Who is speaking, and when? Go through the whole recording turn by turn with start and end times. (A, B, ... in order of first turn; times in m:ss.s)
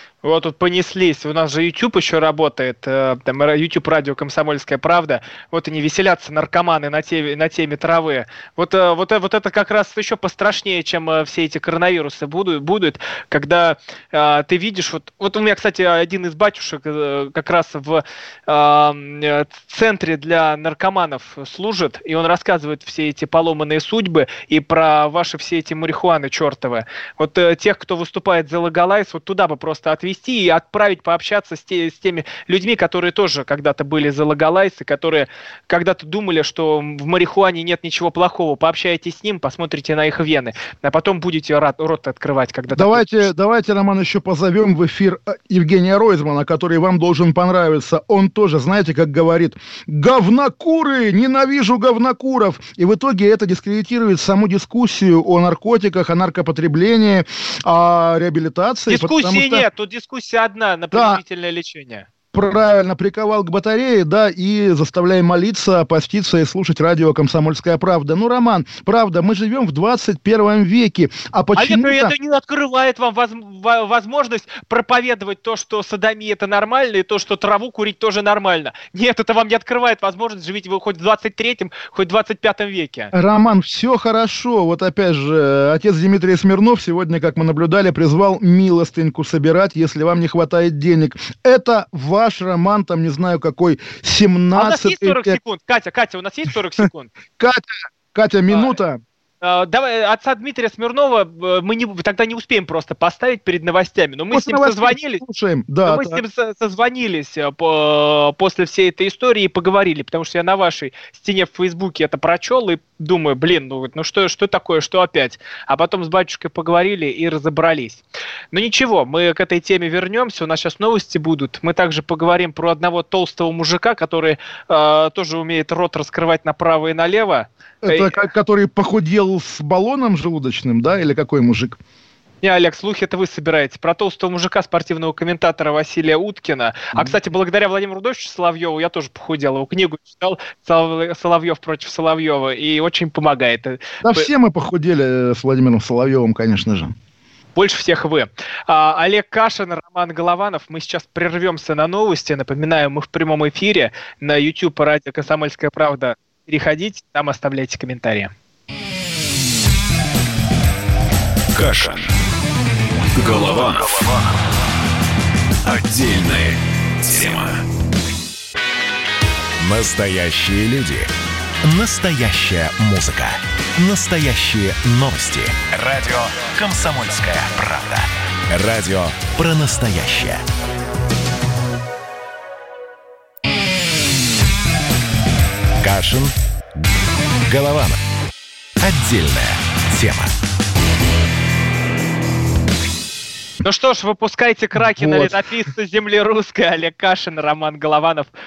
0:00.2-0:43.3 A
0:42.7-0:59.7 B
0:58.9-1:02.1 A
1:00.9-1:01.2 B
1:02.3-1:12.1 B
1:11.6-1:23.1 A
1:23.1-1:35.4 B
1:34.5-1:37.1 A
1:37.4-1:39.0 B
1:38.5-1:38.8 A
1:39.4-1:45.2 A
1:44.3-1:46.2 B
1:45.8-2:08.1 A
2:07.8-2:11.8 B
2:12.4-2:24.3 A
2:24.0-2:26.9 B
2:27.6-2:38.3 A
2:41.5-2:42.1 C
2:43.2-2:44.0 C
2:45.6-2:47.6 C
2:49.6-2:51.1 D
2:51.6-3:00.4 D
3:05.8-3:06.3 D
3:07.5-3:08.0 D
3:08.8-3:10.3 D
3:13.6-3:18.3 A
3:14.8-3:15.4 B